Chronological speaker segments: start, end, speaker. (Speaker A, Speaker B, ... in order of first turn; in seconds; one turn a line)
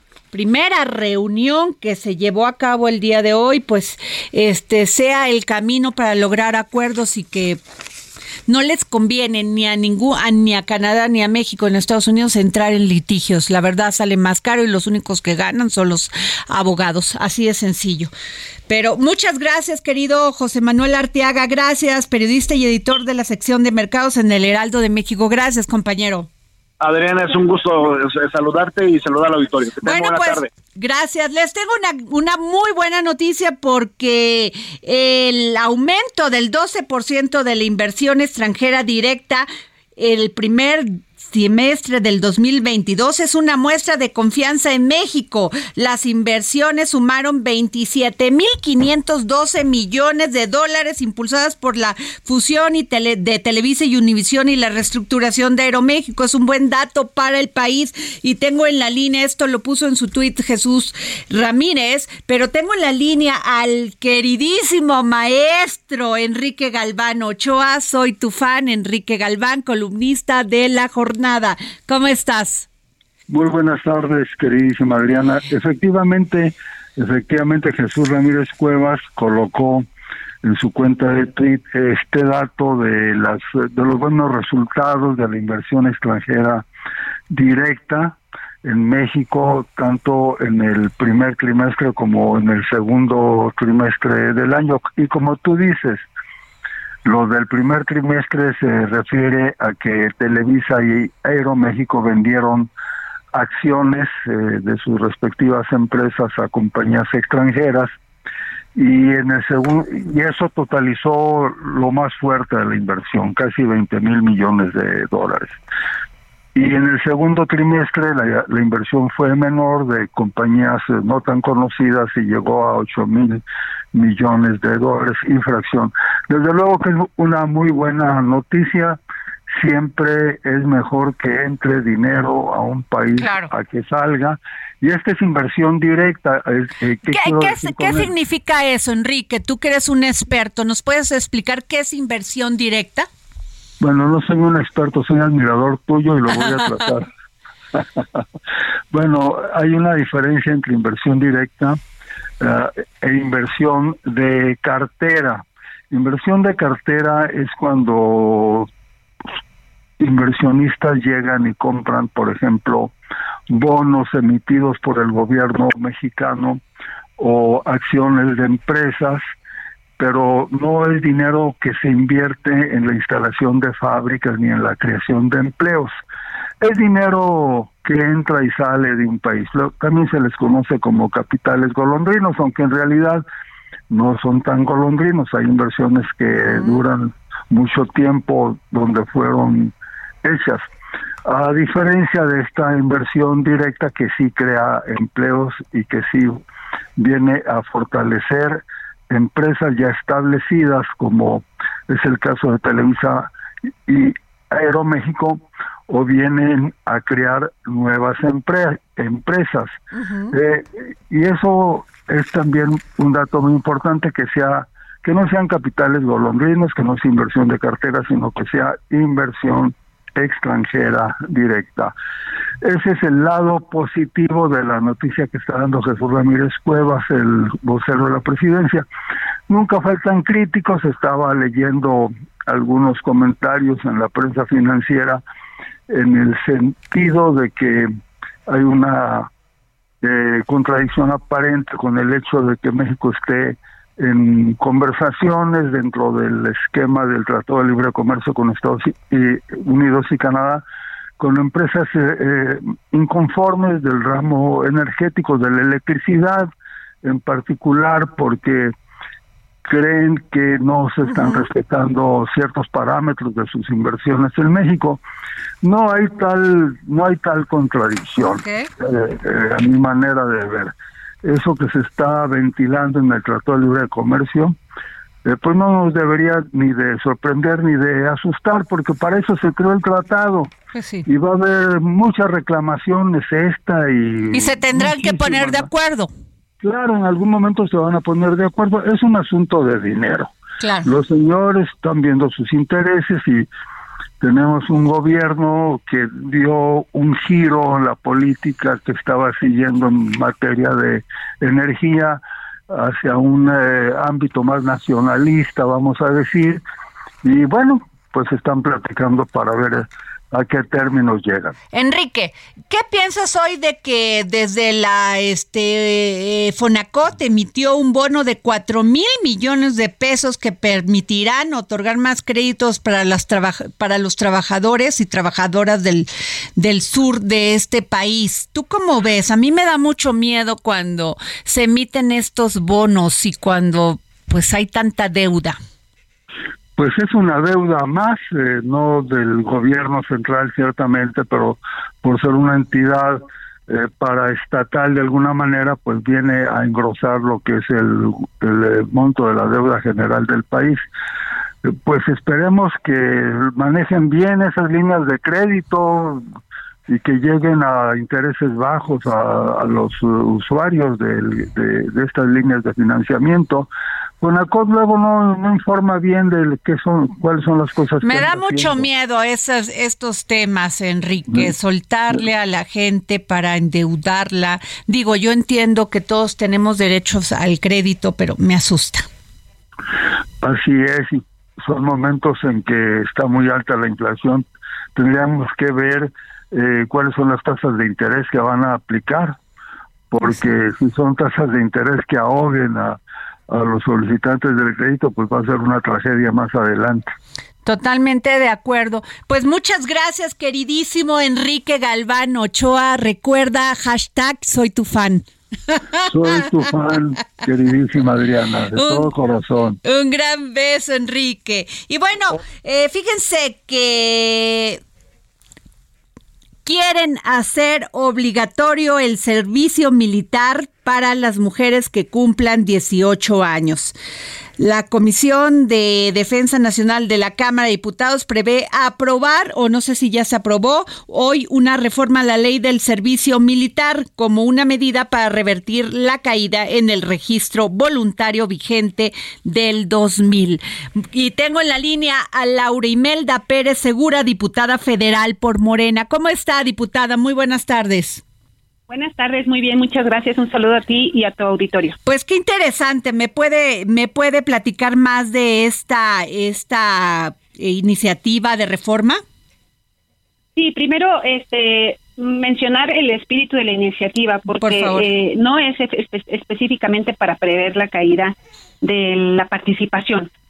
Speaker A: 0.3-7.6
Speaker A: 8.5-18.1
Speaker A: 18.7-26.3
Speaker B: 26.8-30.5
Speaker A: 29.8-72.7
Speaker C: 73.3-79.9
Speaker C: 80.4-86.6
Speaker C: 87.3-96.0
Speaker C: 97.0-102.7
Speaker C: 103.3-107.9
Speaker C: 108.7-115.6
Speaker C: 116.5-129.0
Speaker C: 129.5-138.1
Speaker A: 133.2-133.5
Speaker A: 137.1-143.1
Speaker C: 143.8-147.1
Speaker A: 146.3-146.9
Speaker C: 147.7-148.2
Speaker C: 148.9-151.8
Speaker C: 152.4-158.7
Speaker C: 160.0-162.9
Speaker C: 163.5-166.6
Speaker C: 167.2-169.2
Speaker C: 170.0-175.9
Speaker C: 176.6-183.2
Speaker C: 183.9-190.7
Speaker A: 186.4-186.8
Speaker C: 191.2-196.4
Speaker C: 197.0-203.3
Speaker C: 203.8-209.8
Speaker A: 209.9-210.3
Speaker C: 210.3-221.9
Speaker C: 222.6-228.8
Speaker C: 229.5-235.2
Speaker C: 235.9-237.9
Speaker C: 238.5-239.3
Speaker C: 240.0-250.6
Speaker C: 251.2-256.5
Speaker C: 257.0-258.7
Speaker C: 259.6-265.0
Speaker A: 261.0-261.5
Speaker C: 265.6-274.6
Speaker A: 268.3-268.7
Speaker C: 275.2-280.5
Speaker A: 280.7-281.1
Speaker C: 281.1-285.7
Speaker A: 284.3-286.1
Speaker C: 286.6-290.3
Speaker A: 290.6-290.9
Speaker C: 290.8-293.5
Speaker C: 294.2-306.6
Speaker C: 307.2-311.6
Speaker A: 311.7-335.6
Speaker C: 336.8-350.8
Speaker C: 351.6-356.2
Speaker C: 356.9-363.7
Speaker C: 364.2-368.9
Speaker A: 368.0-379.1
Speaker C: 380.4-389.4
Speaker C: 390.1-397.1
Speaker A: 397.6-406.7
Speaker C: 406.0-409.8
Speaker A: 408.7-409.1
Speaker A: 409.8-414.8
Speaker A: 416.6-423.9
Speaker A: 424.6-448.2
Speaker D: 448.9-452.0
Speaker A: 452.1-459.2
Speaker D: 460.6-470.3
Speaker A: 464.6-465.1